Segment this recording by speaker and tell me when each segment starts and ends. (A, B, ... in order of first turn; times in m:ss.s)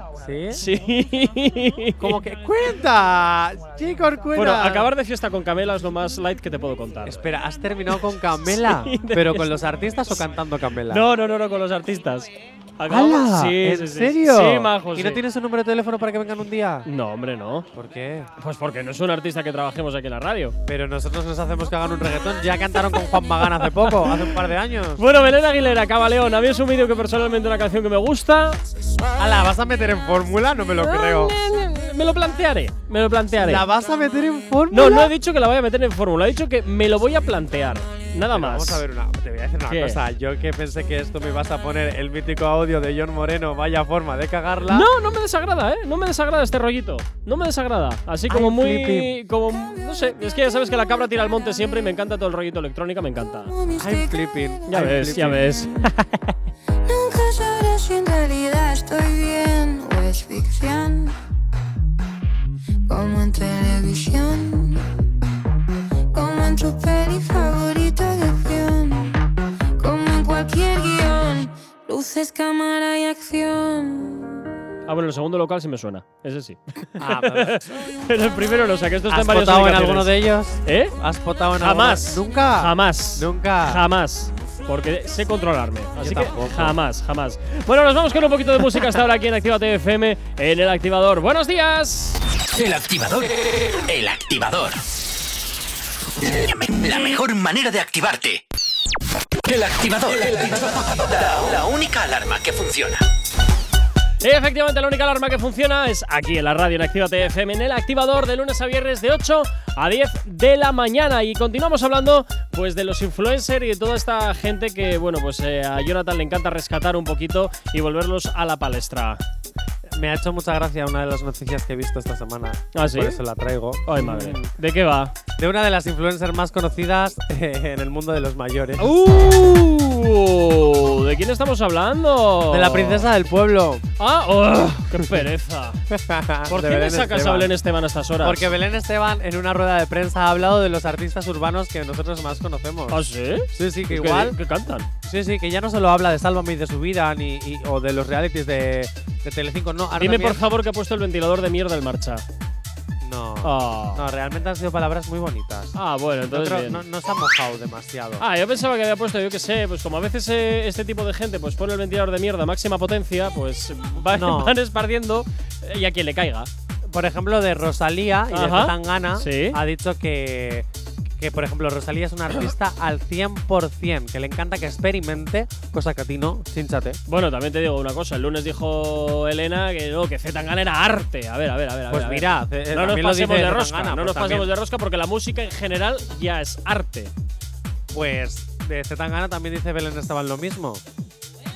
0:00.1-0:00.6 A
0:00.5-0:02.2 B
0:02.0-0:04.9 A
0:04.3-0:07.2 B
0:07.0-0:11.1 A
0:07.9-0:09.7 B
0:10.9-0:15.2 B
0:12.8-0:16.9 A
0:16.8-0:17.7 B
0:17.7-0:18.3 A
0:18.4-0:20.6 B
0:20.6-0:25.0 A
0:23.5-0:24.3 B
0:25.0-0:28.6 B
0:29.2-0:31.4 A
0:30.8-0:33.6 B
0:33.4-0:35.1 A
0:34.7-0:38.8 B
0:38.3-0:44.9 A
0:39.7-0:40.0 B
0:44.7-0:53.5 B
0:48.3-0:49.1 A
0:53.4-0:54.6 C
0:53.7-0:55.7 A
0:54.7-0:55.9 B
0:56.8-1:01.2 C
1:02.9-1:04.8 C
1:06.1-1:09.2 C
1:09.8-1:14.3 C
1:14.8-1:21.0 B
1:17.0-1:17.6 A
1:19.1-1:23.8 A
1:21.6-1:32.2 B
1:26.0-1:26.8 A
1:32.5-1:33.3 D
1:33.9-1:34.8 D
1:36.2-1:38.4 D
1:39.4-1:43.0 D
1:44.2-1:59.2 B
1:59.9-2:04.5 A
2:02.7-2:03.2 B
2:03.8-2:05.1 B
2:05.4-2:09.0 A
2:08.8-2:13.1 B
2:12.5-2:13.8 A
2:14.0-2:15.8 B
2:15.9-2:17.5 A
2:16.5-2:18.5 B
2:18.2-2:24.4 A
2:22.9-2:24.9 B
2:25.0-2:30.4 A
2:30.0-2:32.2 B
2:33.0-2:38.2 A
2:33.4-2:34.0 B
2:35.8-2:36.8 B
2:38.2-2:46.5 B
2:44.0-2:44.6 A
2:46.8-2:50.7 A
2:48.3-2:49.6 B
2:51.2-2:57.0 A
2:57.1-3:07.1 B
3:01.9-3:04.5 A
3:07.9-3:10.8 A